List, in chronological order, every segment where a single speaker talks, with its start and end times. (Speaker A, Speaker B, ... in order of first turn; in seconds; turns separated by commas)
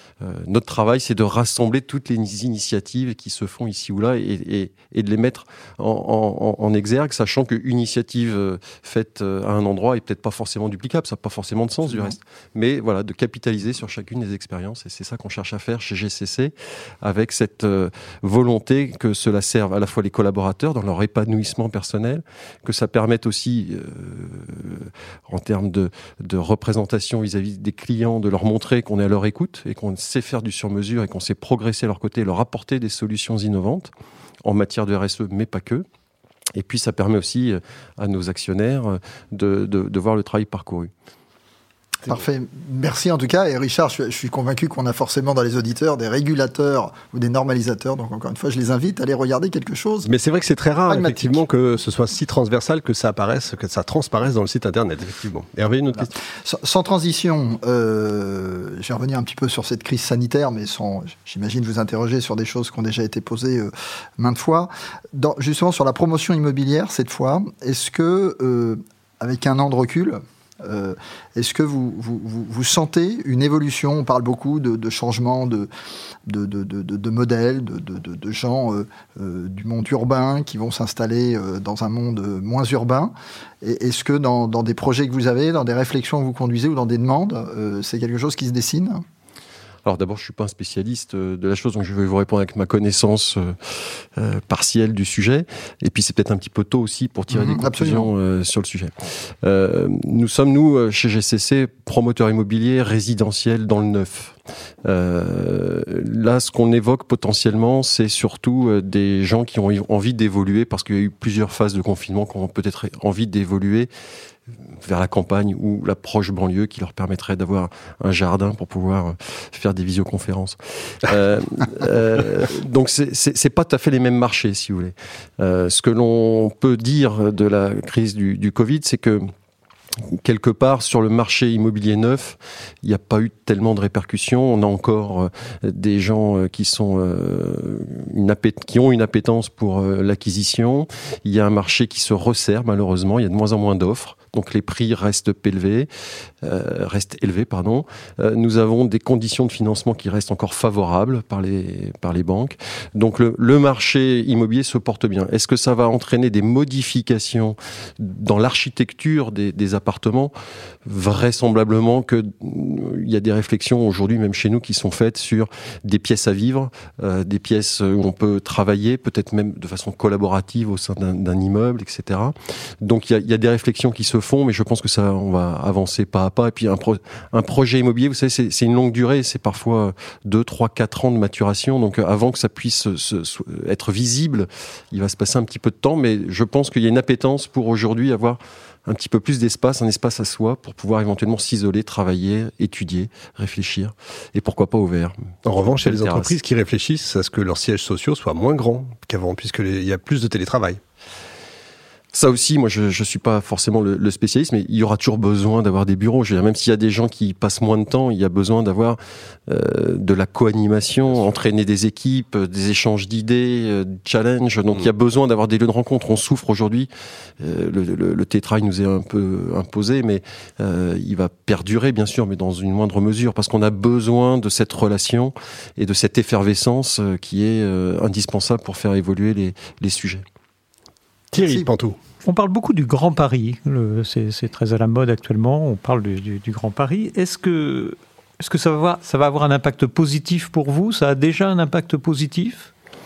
Speaker A: 0.2-33.9, Speaker A: 34.4-35.9, Speaker A: 36.5-40.9, Speaker B: 42.0-50.1, Speaker C: 50.0-56.1, Speaker B: 50.9-51.4, Speaker B: 56.4-75.7, Speaker B: 76.3-89.0, Speaker A: 89.8-113.9, Speaker B: 97.3-98.1, Speaker A: 114.8-129.3, Speaker A: 130.0-145.9, Speaker A: 146.4-160.3, Speaker A: 160.8-196.3, Speaker C: 195.4-200.8, Speaker A: 202.1-230.2, Speaker C: 211.1-211.4, Speaker C: 231.3-232.0, Speaker D: 232.2-242.7